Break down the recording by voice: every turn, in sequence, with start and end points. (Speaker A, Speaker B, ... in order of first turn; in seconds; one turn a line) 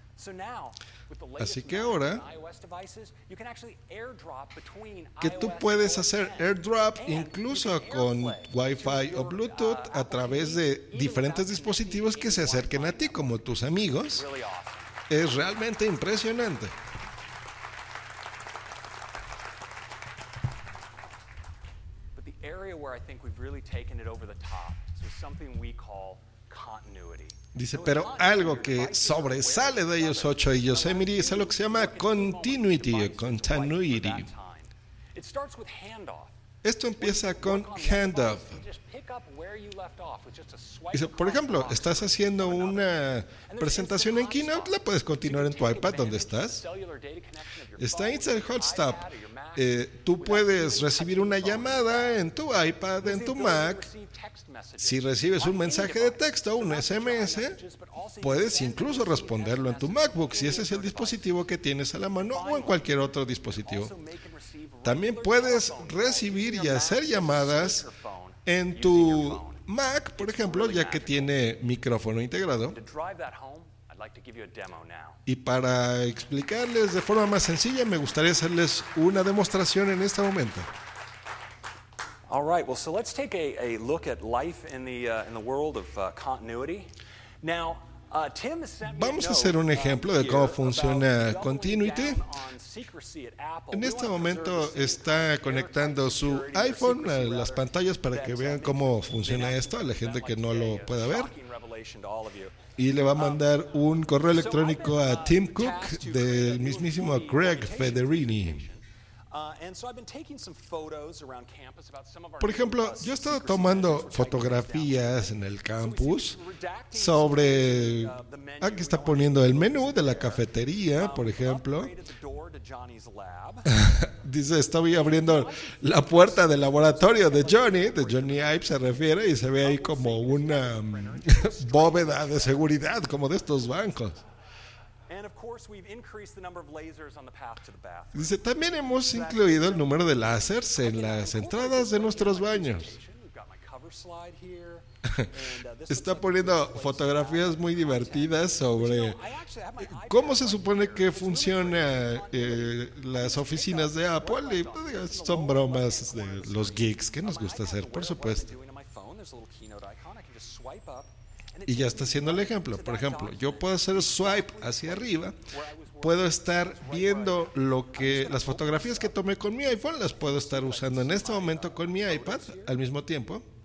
Speaker A: 0.1-13.5
Speaker B: 1.4-2.2
Speaker B: 5.2-14.2
Speaker A: 14.0-15.0
Speaker B: 15.1-16.7
Speaker A: 22.1-36.4
Speaker B: 27.5-34.3
Speaker B: 36.6-38.5
Speaker A: 37.0-52.2
Speaker B: 40.9-46.6
Speaker B: 47.8-49.0
Speaker B: 49.5-53.8
Speaker A: 53.0-61.3
Speaker B: 54.8-57.6
Speaker B: 58.2-63.9
Speaker A: 62.1-71.5
Speaker B: 64.8-67.8
Speaker B: 68.4-72.8
Speaker A: 72.7-75.2
Speaker B: 75.2-80.7
Speaker A: 82.3-123.7
Speaker B: 88.8-92.2
Speaker B: 93.7-101.3
Speaker B: 102.8-108.7
Speaker B: 112.4-116.4
Speaker B: 116.9-121.9
Speaker B: 123.7-134.2
Speaker A: 124.9-133.7
Speaker A: 135.1-172.8
Speaker B: 138.1-142.9
Speaker B: 145.0-145.3
Speaker B: 145.9-149.2
Speaker B: 149.9-158.5
Speaker B: 161.7-165.4
Speaker B: 166.0-173.4